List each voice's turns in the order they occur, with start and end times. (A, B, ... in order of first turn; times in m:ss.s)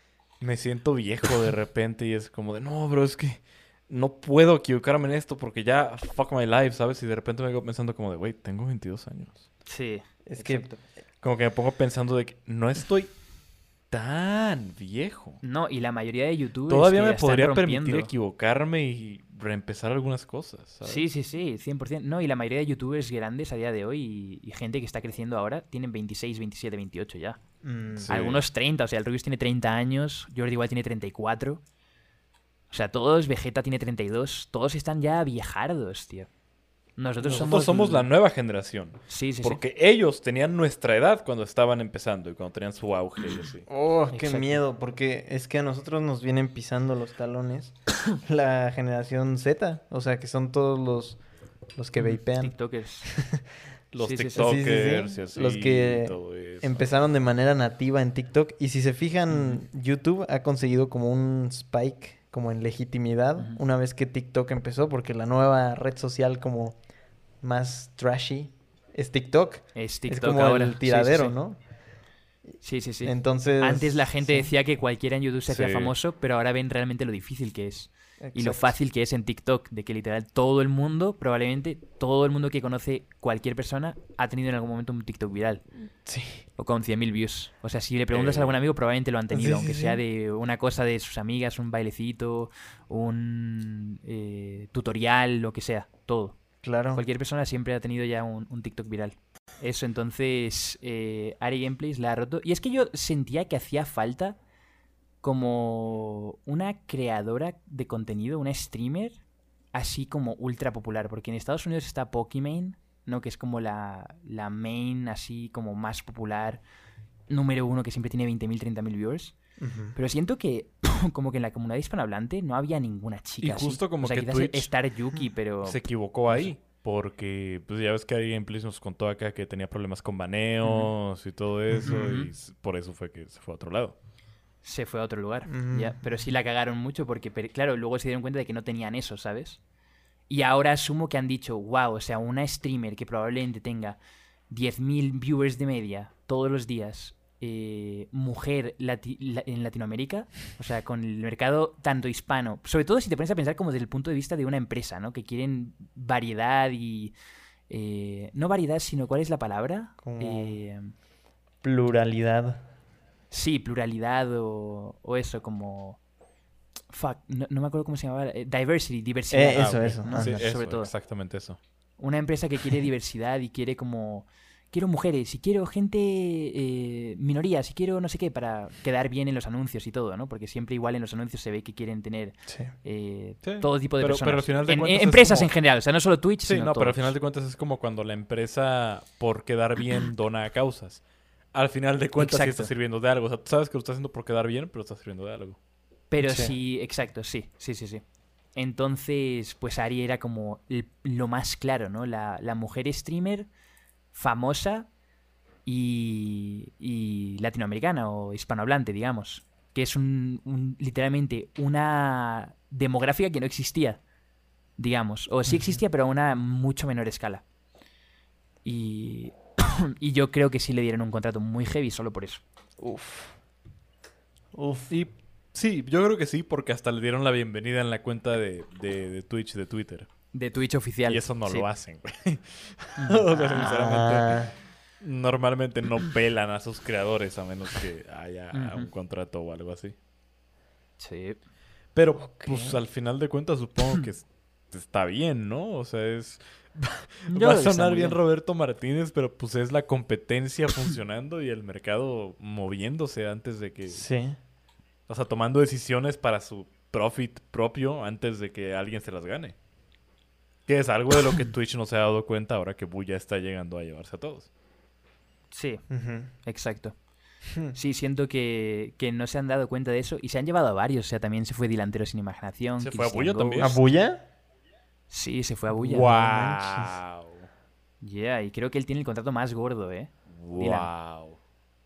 0:00.4-0:09.5 A
0:09.7-0:10.8 B
0:10.3-0:10.9 C
0:11.2-0:13.2 A
0:13.9-0:15.4 A
0:15.4-0:18.1 B
0:16.7-0:21.0 A
0:20.8-0:27.4 B
0:27.6-0:28.1 C
0:28.0-0:28.4 A
0:28.1-0:31.6 B
0:32.7-0:36.3 B
0:37.0-0:38.1 B
0:37.2-0:43.7 A
0:39.1-0:39.6 B
0:43.7-0:53.4 C
0:44.1-0:44.6 B
0:52.0-0:53.2 B
0:53.9-0:56.9 A
0:54.0-0:54.6 B
0:54.4-1:06.9 C
0:59.3-0:59.6 B
1:07.4-1:11.6 C
1:09.7-1:11.4 B
1:12.4-1:14.5 C
1:12.6-1:25.7 B
1:15.5-1:15.9 A
1:18.2-1:18.8 C
1:26.0-1:26.4 C
1:26.6-1:36.4 B
1:28.1-1:28.6 A
1:29.3-1:30.0 C
1:36.6-1:37.0 C
1:36.9-1:44.4 B
1:45.2-1:49.2 B
1:49.7-1:56.6 B
1:57.3-1:59.4 B
1:59.6-2:00.0 C
2:00.0-2:06.5 B
2:03.4-2:04.7 A
2:05.6-2:14.0 A
2:10.6-2:10.9 B
2:11.7-2:12.1 C
2:11.9-2:12.3 B
2:14.6-2:19.6 B
2:15.5-2:16.2 C
2:20.3-2:24.0 B
2:24.5-2:37.1 B
2:37.7-2:40.9 B
2:40.0-2:40.6 C
2:41.6-2:42.7 C
2:43.3-2:46.0 B
2:46.9-2:50.9 B
2:49.3-2:50.4 C
2:49.5-2:51.6 A
2:52.0-3:07.1 B
3:02.5-3:02.7 C
3:03.4-3:05.6 A
3:06.4-3:11.0 A
3:11.5-3:15.6 A
3:12.2-3:12.7 B
3:16.1-3:23.5 B
3:16.2-3:16.5 C
3:24.1-3:24.9 B
3:25.6-3:34.0 B
3:34.8-3:37.4 B
3:35.5-3:35.8 C
3:38.6-3:42.4 B
3:42.8-3:43.4 C
3:44.5-3:44.9 C
3:44.9-3:50.1 A
3:50.3-3:51.7 B
3:51.1-4:00.0 A
3:53.0-3:53.7 B
3:53.3-3:54.5 C
3:58.5-3:58.9 B
4:01.0-4:01.4 B
4:02.0-4:14.1 A
4:02.2-4:02.8 C
4:07.3-4:08.2 B
4:13.9-4:14.4 C
4:15.1-4:19.6 A
4:20.7-4:24.5 A
4:25.5-4:27.0 B
4:25.9-4:26.3 C
4:27.6-4:33.8 B
4:32.8-4:33.9 A
4:33.6-4:34.2 C
4:35.1-4:36.2 B
4:35.7-4:37.0 C
4:35.8-4:37.5 A
4:38.0-4:40.9 B
4:40.3-4:41.4 A